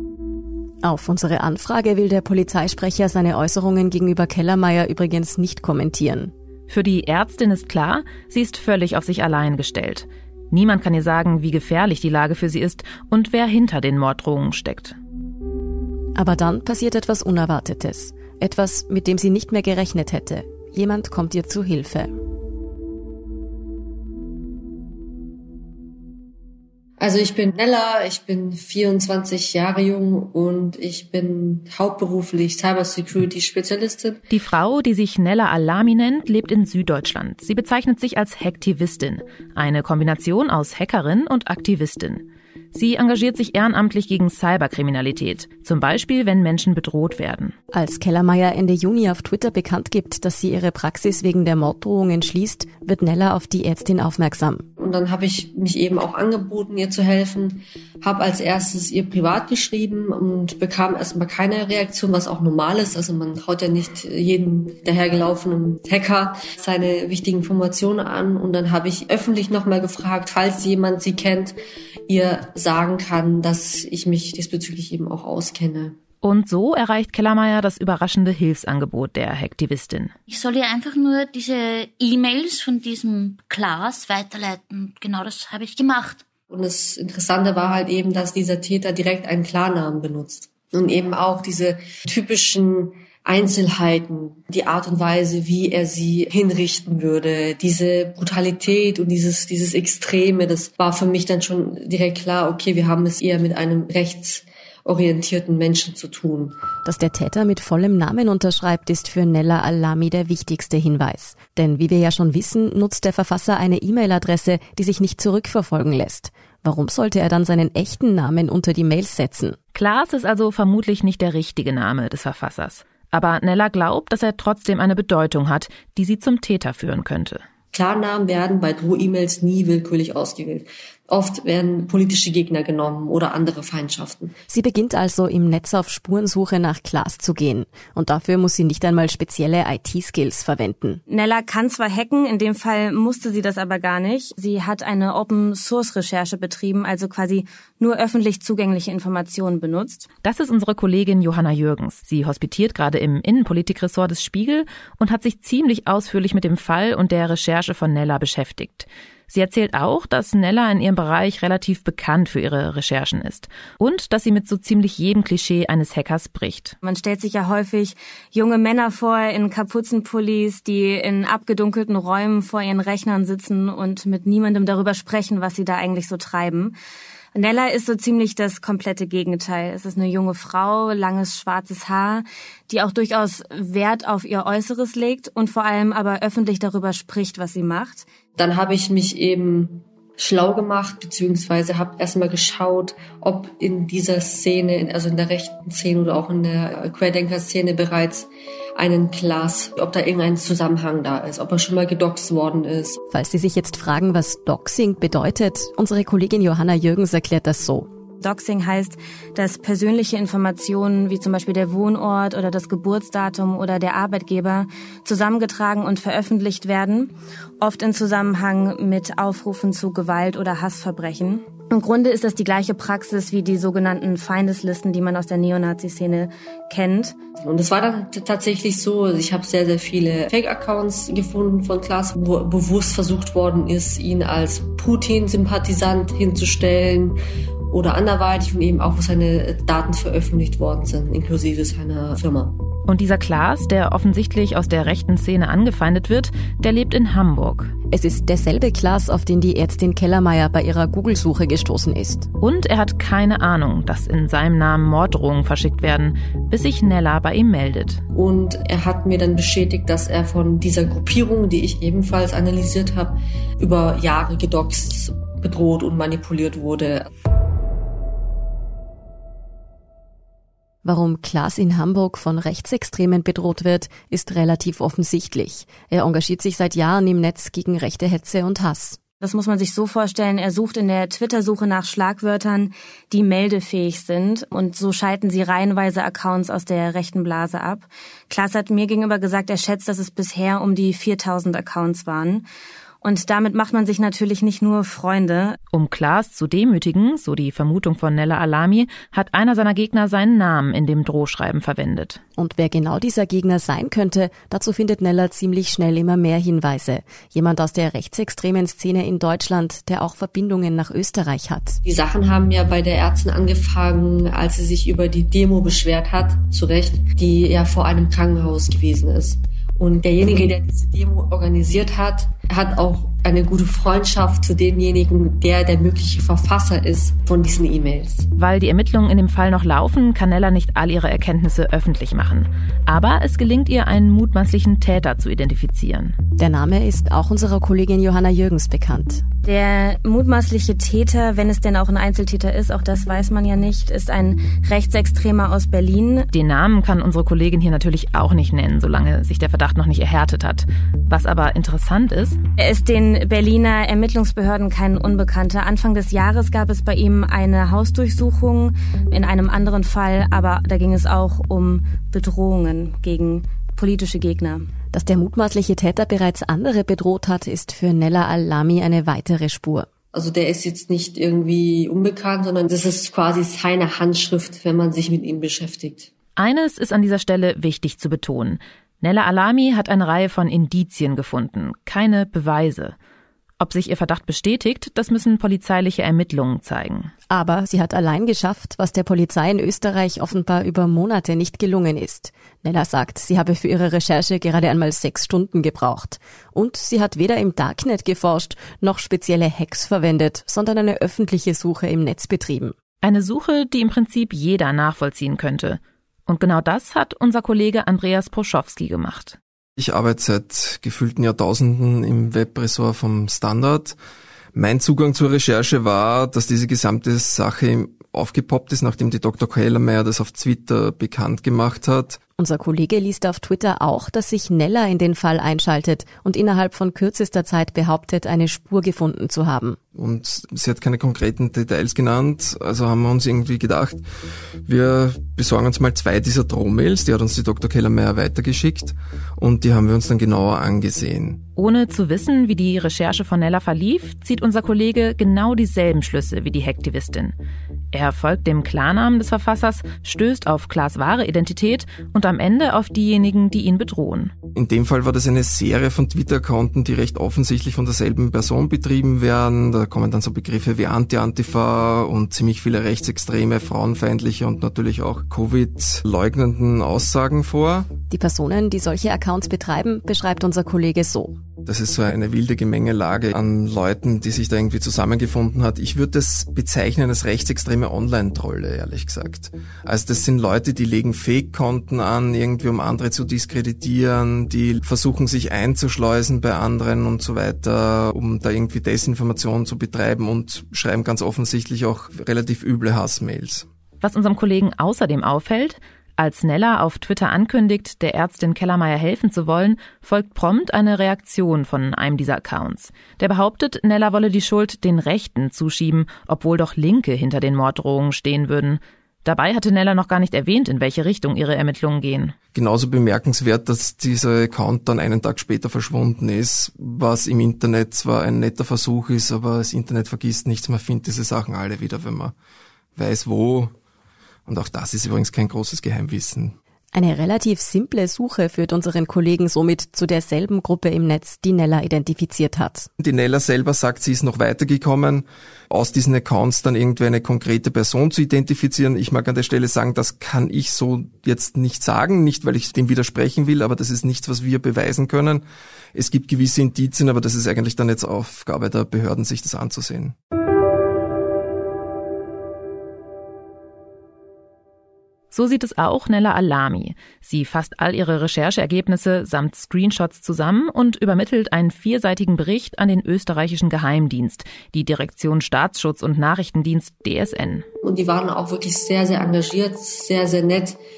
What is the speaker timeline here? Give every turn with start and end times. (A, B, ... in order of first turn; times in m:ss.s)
0:00.8-0:06.3 A
0:06.7-0:15.0 B
0:16.1-0:22.1 A
0:27.0-0:34.2 C
0:34.3-0:47.5 B
0:47.7-0:54.6 A
0:54.8-1:11.6 C
1:12.1-1:16.0 C
1:16.2-1:20.1 B
1:20.3-1:26.2 D
1:26.5-1:46.6 C
1:46.8-1:59.6 A
1:59.7-2:07.4 B
2:07.7-2:14.3 C
2:14.5-2:21.0 A
2:21.1-2:30.0 E
2:30.2-2:46.8 B
2:46.8-2:56.7 E
2:57.3-3:08.0 E
3:08.4-3:23.0 C
3:23.1-3:27.9 A
3:28.2-3:47.1 E
3:47.4-3:57.2 C
3:57.7-4:02.6 C
4:02.9-4:07.7 B
4:07.9-4:12.3 A
4:12.4-4:18.0 B
4:18.1-4:27.1 C
4:30.8-4:39.0 A
4:39.2-4:52.4 E
4:53.0-4:55.6 E
4:55.7-5:02.2 B
5:02.4-5:11.8 A
5:11.8-5:28.3 C
5:28.4-5:36.2 B
5:36.4-5:39.2 A
5:39.4-5:46.3 E
5:46.3-5:52.4 B
5:52.6-6:04.6 E
6:04.9-6:09.9 A
6:10.1-6:16.1 C
6:16.4-6:22.9 B
6:23.6-6:27.1 B
6:27.3-6:42.7 A
6:43.0-6:49.4 B
6:49.8-6:54.0 F
6:54.5-7:02.2 F
7:02.4-7:09.8 A
7:09.9-7:14.0 F
7:14.6-7:21.4 F
7:21.6-7:27.3 B
7:27.9-7:34.3 B
7:34.5-7:47.9 F
7:48.1-7:51.4 A
7:51.6-8:13.7 F
8:14.0-8:32.3 B
8:32.5-8:42.3 F
8:42.9-8:43.7 F
8:44.4-8:46.5 F
8:46.9-8:52.9 A
8:53.0-9:05.4 F
9:05.9-9:10.1 F
9:15.3-9:27.6 B
9:27.8-9:30.8 C